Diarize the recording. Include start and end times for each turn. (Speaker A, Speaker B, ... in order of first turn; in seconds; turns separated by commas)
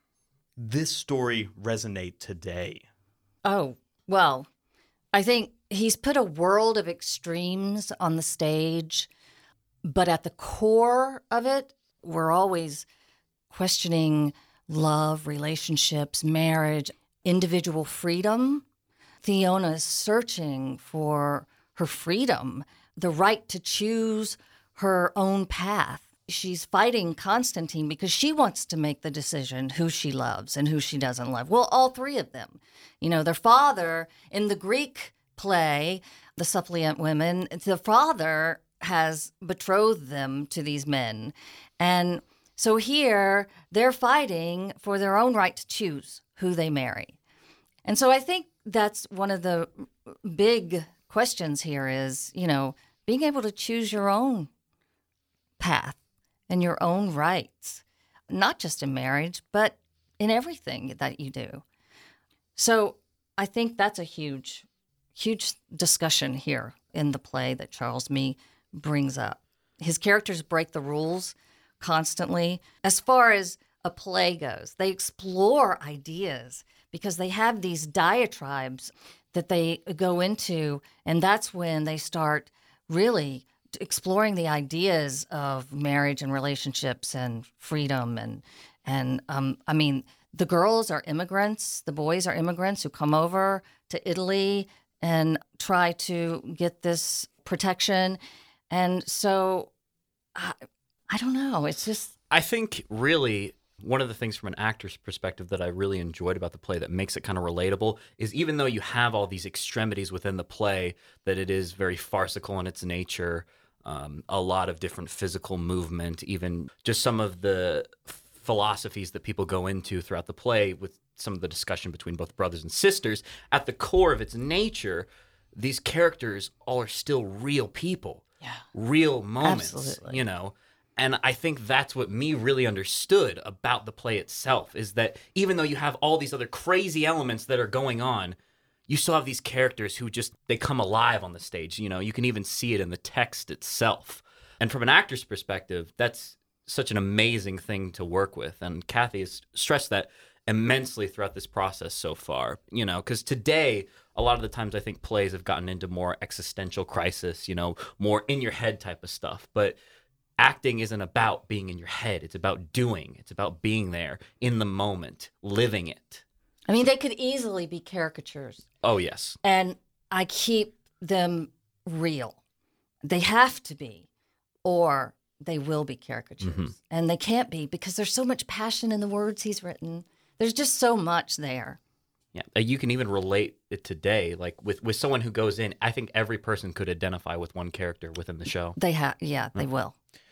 Speaker A: 0.6-2.9, Speaker B: 3.4-4.5, Speaker B: 5.1-9.1, Speaker B: 9.8-12.9, Speaker B: 13.5-18.6, Speaker B: 19.2-47.1, Speaker B: 47.8-54.5, Speaker B: 55.6-61.6, Speaker B: 62.6-98.2, Speaker B: 98.7-99.7, Speaker B: 101.1-102.1, Speaker C: 102.3-138.4, Speaker B: 129.4-130.2, Speaker C: 138.9-159.8, Speaker C: 160.4-166.2, Speaker B: 166.7-168.6, Speaker C: 168.8-169.4, Speaker B: 169.4-172.4, Speaker B: 173.0-174.1, Speaker B: 174.6-181.8, Speaker C: 176.4-176.7, Speaker C: 182.3-188.8, Speaker B: 188.8-189.9